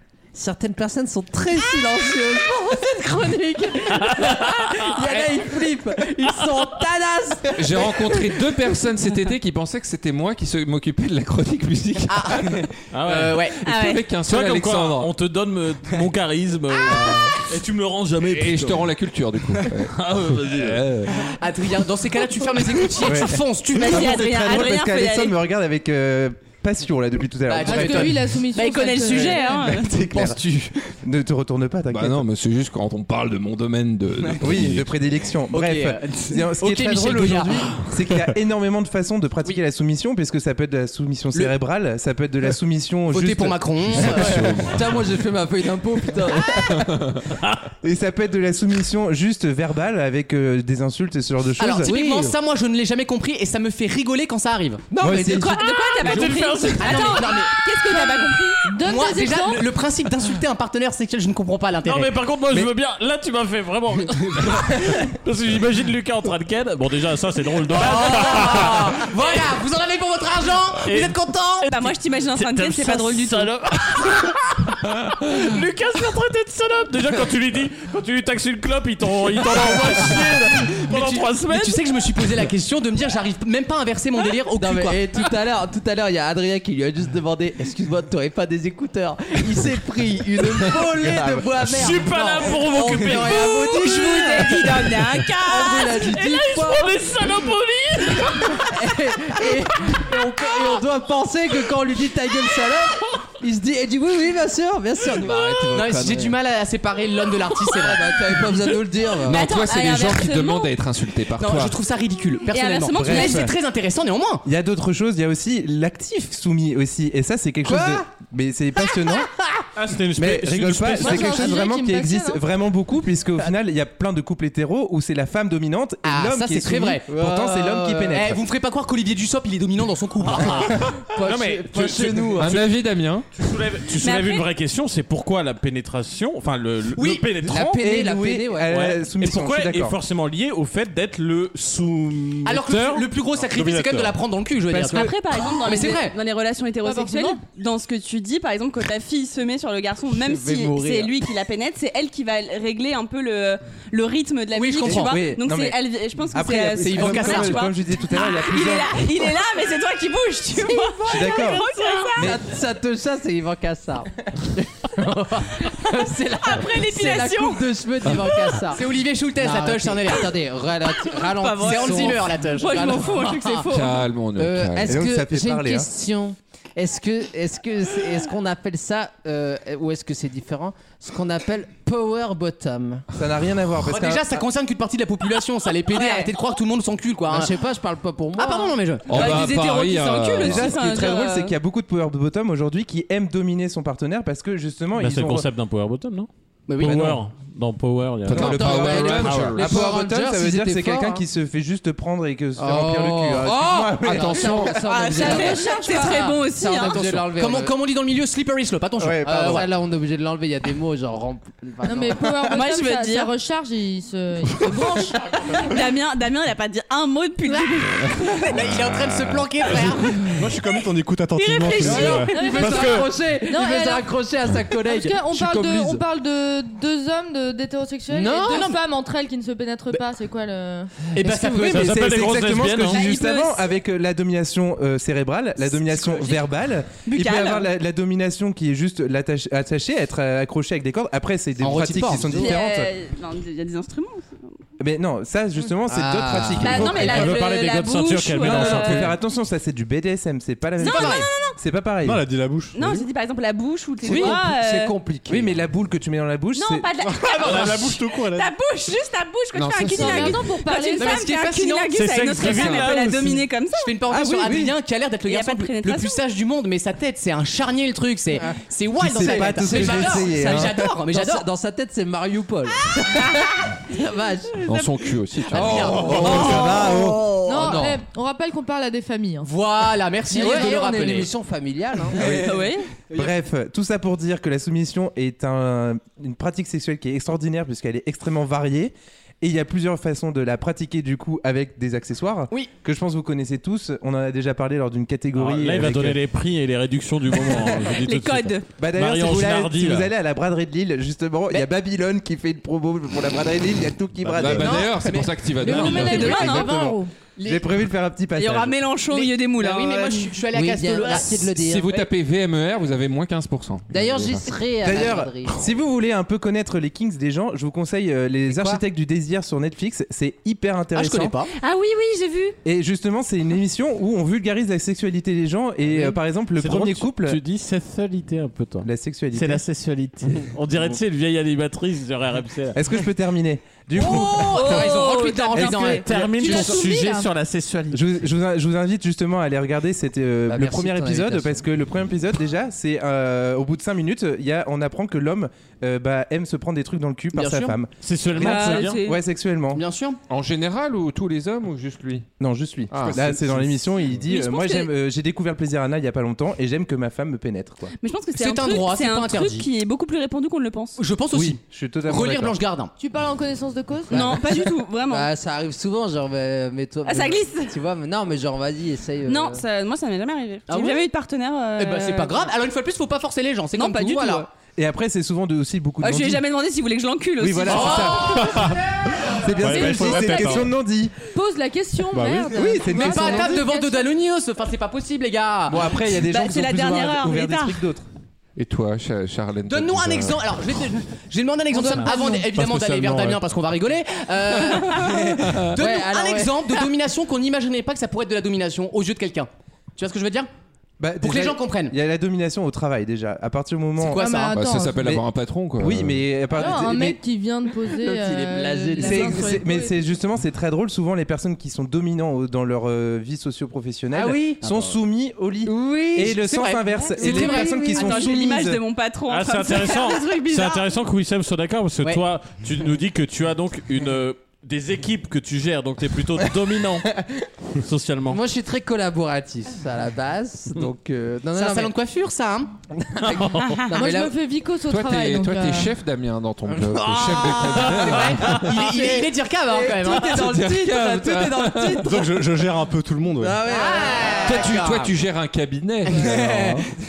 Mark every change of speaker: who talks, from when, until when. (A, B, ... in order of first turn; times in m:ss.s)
0:00.3-0:08.4 A
0:04.0-0:04.9 B
0:07.6-0:12.6 C
0:12.1-0:13.6 D
0:12.9-0:13.5 B
0:13.6-0:14.0 E
0:13.7-0:15.1 C
0:14.2-0:18.9 B
0:16.9-0:17.3 C
0:18.2-0:21.3 C
0:19.9-0:20.8 B
0:21.2-0:24.1 D
0:23.0-0:28.3 F
0:23.7-0:25.4 E
0:27.5-0:30.8 D
0:27.6-0:29.6 G
0:28.5-0:30.0 E
0:29.4-0:30.4 F
0:31.0-0:32.2 F
0:31.9-0:34.9 C
0:34.4-0:44.5 F
0:35.5-0:37.7 D
0:43.1-0:44.4 D
0:44.0-0:44.9 C
0:44.5-0:46.7 A
0:46.7-0:47.2 C
0:47.8-0:51.9 F
0:51.6-0:54.9 D
0:51.8-0:52.4 A
0:54.9-0:55.6 A
0:55.0-0:55.6 F
0:55.3-0:58.7 E
0:56.0-0:57.4 B
0:56.1-0:57.6 D
0:56.9-0:57.2 G
0:57.8-0:59.6 G
0:58.8-1:02.1 D
1:01.8-1:09.1 B
1:07.7-1:11.7 D
1:10.8-1:21.8 B
1:11.7-1:13.5 E
1:19.9-1:20.3 A
1:20.8-1:25.0 D
1:24.5-1:37.0 A
1:31.0-1:31.4 F
1:31.6-1:33.9 B
1:33.3-1:36.0 E
1:36.0-1:38.7 B
1:38.3-1:46.4 A
1:45.7-1:48.2 D
1:47.6-1:49.4 A
1:49.2-1:51.8 C
1:49.2-1:50.7 E
1:51.4-1:54.4 D
1:52.5-1:53.5 E
1:52.9-1:53.5 F
1:54.4-1:59.3 F
1:57.6-1:58.0 A
1:59.8-2:01.6 B
2:00.2-2:08.4 F
2:01.0-2:02.4 G
2:06.0-2:07.1 D
2:07.1-2:08.3 A
2:08.1-2:10.8 D
2:10.4-2:12.6 B
2:10.5-2:12.6 A
2:12.4-2:13.3 C
2:13.4-2:17.8 B
2:14.0-2:14.5 E
2:17.0-2:17.2 D
2:17.4-2:18.8 A
2:17.5-2:20.0 F
2:18.7-2:23.0 B
2:22.4-2:26.2 D
2:23.4-2:24.2 H
2:24.7-2:25.2 F
2:24.9-2:42.4 E
2:26.8-2:27.4 G
2:30.1-2:31.2 A
2:34.5-2:35.2 D
2:34.8-2:39.2 F
2:36.8-2:37.6 D
2:40.5-2:48.8 A
2:41.0-2:41.6 F
2:42.2-2:42.4 F
2:45.8-2:48.5 E
2:48.7-2:50.3 D
2:49.4-2:53.3 A
2:51.0-2:54.1 E
2:51.6-2:53.6 D
2:53.7-2:55.0 C
2:54.4-3:03.0 A
2:54.9-2:55.9 F
3:03.1-3:04.4 F
3:03.9-3:07.5 D
3:05.9-3:06.3 E
3:07.3-3:08.8 A
3:08.4-3:10.5 D
3:09.1-3:10.8 C
3:09.1-3:11.6 E
3:10.4-3:15.5 F
3:15.0-3:18.7 B
3:16.7-3:17.0 D
3:16.8-3:17.2 F
3:18.3-3:19.8 C
3:18.3-3:21.2 A
3:18.3-3:24.9 F
3:19.2-3:19.6 B
3:22.6-3:27.8 A
3:24.0-3:24.8 C
3:24.8-3:27.1 E
3:25.0-3:26.2 G
3:26.7-3:29.7 D
3:29.0-3:29.7 F
3:29.2-3:32.2 A
3:31.8-3:35.4 G
3:32.5-3:33.3 E
3:35.4-3:38.6 E
3:38.4-3:40.3 D
3:40.2-3:42.4 H
3:41.4-3:42.3 E
3:41.7-3:46.0 A
3:42.3-3:44.1 G
3:42.6-3:43.0 B
3:44.7-3:51.0 G
3:48.1-3:48.7 A
3:48.5-3:48.8 D
3:51.1-3:52.0 D
3:51.2-3:51.9 A
3:51.7-4:02.9 F
3:51.7-3:53.1 B
3:52.8-3:53.8 E
3:56.0-3:56.3 D
3:57.0-3:57.7 E
4:01.6-4:02.3 D
4:01.9-4:02.5 A
4:02.2-4:04.5 E
4:04.8-4:07.5 F
4:05.9-4:07.3 A
4:06.6-4:09.1 E
4:07.0-4:09.1 B
4:08.4-4:12.2 F
4:10.8-4:11.6 E
4:10.8-4:11.3 D
4:12.0-4:13.0 H
4:12.7-4:15.0 E
4:14.0-4:15.6 A
4:14.0-4:14.4 D
4:15.3-4:16.9 F
4:16.5-4:24.0 E
4:17.0-4:18.5 H
4:19.5-4:20.4 C
4:19.9-4:21.3 G
4:20.9-4:22.8 D
4:21.9-4:23.4 B
4:22.5-4:22.7 C
4:23.8-4:31.5 D
4:24.1-4:24.8 F
4:25.2-4:26.2 E
4:29.0-4:30.9 F
4:29.1-4:34.7 A
4:33.2-4:33.5 E
4:34.6-4:36.9 C
4:35.5-4:36.6 D
4:35.5-4:38.0 A
4:36.0-4:37.4 F
4:36.2-4:37.1 E
4:37.4-4:39.5 G
4:37.5-4:37.9 D
4:39.4-4:41.3 D
4:40.3-4:40.8 G
4:40.3-4:42.5 A
4:42.2-4:56.2 F
4:42.2-4:42.6 D
4:42.4-4:42.8 E
4:55.4-5:00.1 B
4:57.9-4:58.7 E
4:58.8-5:05.1 F
5:04.3-5:06.5 C
5:04.7-5:05.3 D
5:05.6-5:07.1 G
5:05.7-5:08.8 F
5:06.0-5:06.4 D
5:06.2-5:06.8 E
5:07.4-5:07.6 D
5:08.4-5:10.4 E
5:09.1-5:12.0 D
5:10.5-5:12.0 A
5:11.5-5:14.5 C
5:13.9-5:15.7 A
5:14.8-5:21.3 F
5:18.5-5:18.8 A
5:20.9-5:21.5 D
5:21.5-5:22.6 E
5:22.6-5:27.4 F
5:26.6-5:32.8 B
5:28.8-5:29.6 F
5:32.7-5:34.9 F
5:34.0-5:36.9 D
5:34.1-5:36.0 E
5:35.6-5:36.0 F
5:35.8-5:38.2 B
5:36.4-5:37.3 G
5:37.9-5:49.8 F
5:40.5-5:41.6 A
5:47.3-5:47.8 D
5:48.0-5:49.0 B
5:48.4-5:49.2 E
5:49.7-5:50.2 D
5:50.3-5:52.3 C
5:52.4-5:57.9 F
5:52.9-5:53.6 C
5:53.1-5:53.4 H
5:54.2-5:54.9 E
5:58.0-6:01.0 E
5:58.4-5:59.7 D
6:01.0-6:02.9 D
6:01.3-6:02.6 F
6:03.0-6:04.6 G
6:04.1-6:05.3 E
6:04.1-6:09.6 A
6:07.0-6:07.8 E
6:09.2-6:12.5 E
6:10.7-6:11.0 D
6:11.8-6:14.5 D
6:13.7-6:14.5 E
6:14.8-6:16.4 F
6:16.0-6:18.5 E
6:17.4-6:21.2 F
6:17.7-6:18.7 D
6:18.4-6:18.8 H
6:19.6-6:20.7 H
6:19.6-6:20.7 G
6:21.3-6:24.1 G
6:22.1-6:22.5 H
6:22.5-6:23.7 F
6:22.9-6:25.9 D
6:25.7-6:28.1 F
6:26.1-6:27.8 E
6:28.6-6:30.6 C
6:29.7-6:40.5 D
6:31.7-6:32.5 G
6:32.5-6:33.4 H
6:34.9-6:35.2 A
6:35.7-6:36.8 A
6:41.0-6:44.2 F
6:41.2-6:42.0 D
6:44.0-6:44.5 D
6:44.1-6:45.0 G
6:44.5-6:46.3 C
6:45.8-6:47.2 F
6:46.5-6:50.0 G
6:47.9-6:49.6 A
6:49.0-6:58.8 F
6:54.1-6:55.0 A
6:55.6-6:56.5 A
6:56.4-6:58.3 D
6:57.2-7:00.3 E
6:57.2-6:58.2 A
6:59.3-7:07.1 B
6:59.8-7:00.8 D
7:07.8-7:08.4 B
7:08.3-7:11.9 A
7:11.5-7:12.7 D
7:13.0-7:14.3 A
7:13.3-7:13.8 B
7:13.9-7:15.9 G
7:14.8-7:18.7 C
7:16.7-7:22.3 A
7:17.1-7:20.5 D
7:20.2-7:22.1 C
7:22.0-7:23.6 H
7:23.4-7:24.8 A
7:23.7-7:25.1 D
7:24.4-7:26.8 C
7:26.1-7:26.8 D